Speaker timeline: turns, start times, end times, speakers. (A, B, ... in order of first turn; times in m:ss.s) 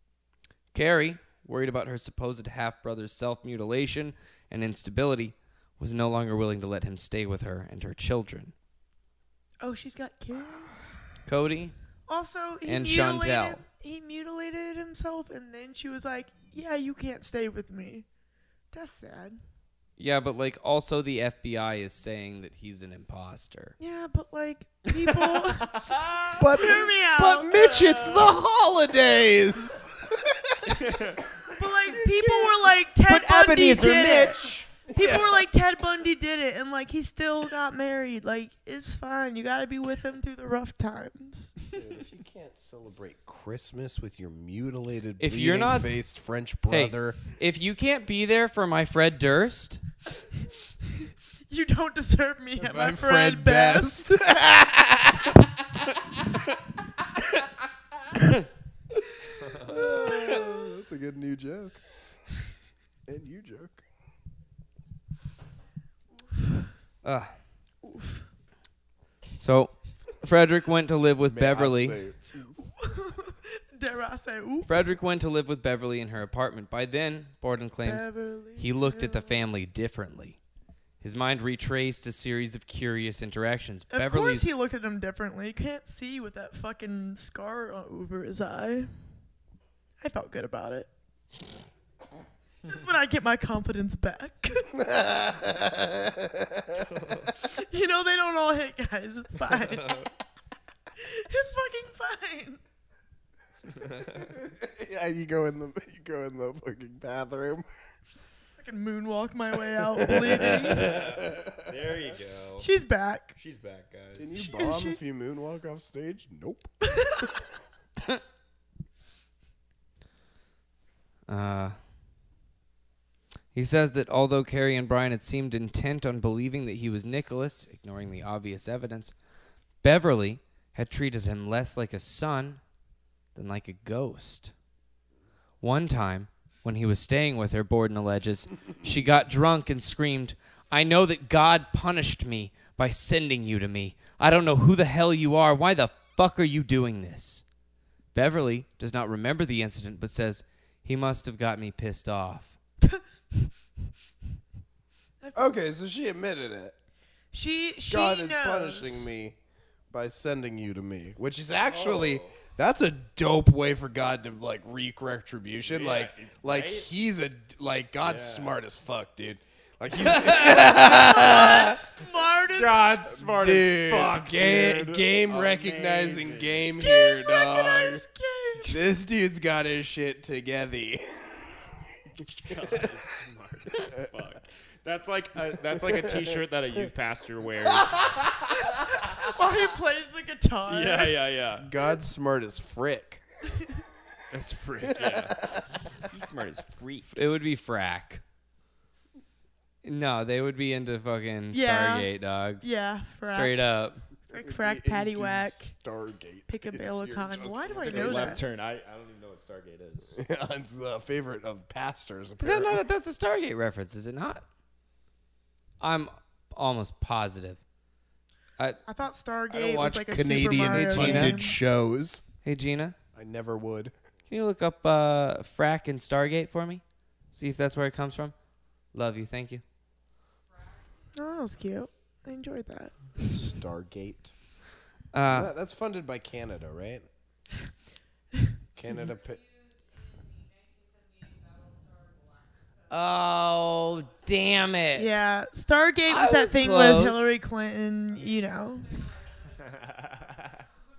0:00.7-0:08.5 A
0:09.6-0:10.7 B
0:11.2-0:11.7 A
0:12.1-0:18.0 B
0:12.6-0:13.6 A
0:18.7-0:19.4 B
0:20.0-0:23.7 A
0:23.8-0:25.8 B
0:24.8-0:26.8 C
0:26.4-0:30.9 D
0:26.4-0:27.6 B
0:27.7-0:28.3 C
0:30.7-0:31.2 C
0:31.5-0:41.6 B
0:31.9-0:32.7 D
0:33.0-0:34.7 C
0:34.9-0:35.4 D
0:41.7-0:47.2 D
0:45.2-0:46.0 A
0:46.7-0:49.8 A
0:51.5-0:54.0 B
0:52.6-0:55.5 D
0:59.4-0:59.7 C
0:59.6-1:01.8 D
1:03.1-1:03.8 D
1:06.3-1:06.7 B
1:07.0-1:07.3 A
1:07.8-1:08.2 B
1:09.4-1:12.0 A
1:11.3-1:12.6 D
1:12.8-1:14.8 B
1:14.6-1:20.4 A
1:17.8-1:19.4 B
1:21.0-1:24.5 A
1:23.9-1:28.9 B
1:30.0-1:30.9 B
1:32.6-1:34.7 B
1:34.7-1:36.9 D
1:36.9-1:37.3 C
1:37.4-1:40.1 B
1:39.6-1:40.1 C
1:41.0-1:42.6 B
1:43.7-1:44.3 C
1:44.3-1:47.6 D
1:48.6-1:51.0 B
1:50.0-1:51.7 D
1:50.5-1:52.7 C
1:52.6-1:53.3 B
1:53.4-1:54.5 C
1:54.2-1:56.7 D
1:54.4-1:55.0 B
1:56.8-1:57.3 B
2:01.3-2:01.7 A
2:03.5-2:09.1 A
2:09.8-2:12.6 A
2:13.3-2:14.5 A
2:15.6-2:27.4 A
2:28.1-2:32.6 A
2:35.2-2:35.5 B
2:35.3-2:36.7 D
2:37.3-2:39.1 B
2:37.8-2:39.4 D
2:39.9-2:51.8 D
2:41.6-2:42.4 C
2:45.6-2:46.9 C
2:48.0-2:48.5 C
2:50.7-2:52.9 B
2:52.5-2:56.7 C
2:53.1-2:58.0 D
2:56.8-2:58.8 B
2:58.7-3:01.8 D
3:02.2-3:08.2 C
3:02.5-3:02.8 D
3:06.0-3:06.3 D
3:09.0-3:11.2 B
3:10.7-3:11.6 C
3:11.6-3:13.2 D
3:14.3-3:17.2 C
3:14.9-3:15.6 D
3:17.1-3:18.2 A
3:19.8-3:22.6 A
3:21.5-3:22.1 B
3:22.6-3:23.6 B
3:23.2-3:24.0 A
3:24.3-3:25.7 B
3:24.4-3:28.4 D
3:26.5-3:28.4 B
3:27.8-3:30.2 C
3:30.2-3:32.8 D
3:32.4-3:34.4 A
3:35.8-3:37.6 A
3:38.8-3:41.6 B
3:39.5-3:42.2 D
3:40.7-3:41.5 A
3:42.4-3:42.9 A
3:43.1-3:43.9 D
3:44.3-3:48.3 A
3:48.9-3:49.6 A
3:51.1-3:53.1 B
3:53.2-3:54.3 D
3:55.1-3:55.5 A
3:55.2-3:57.0 D
3:58.7-3:59.4 D
4:02.9-4:05.1 A
4:04.9-4:09.1 B
4:06.1-4:07.4 A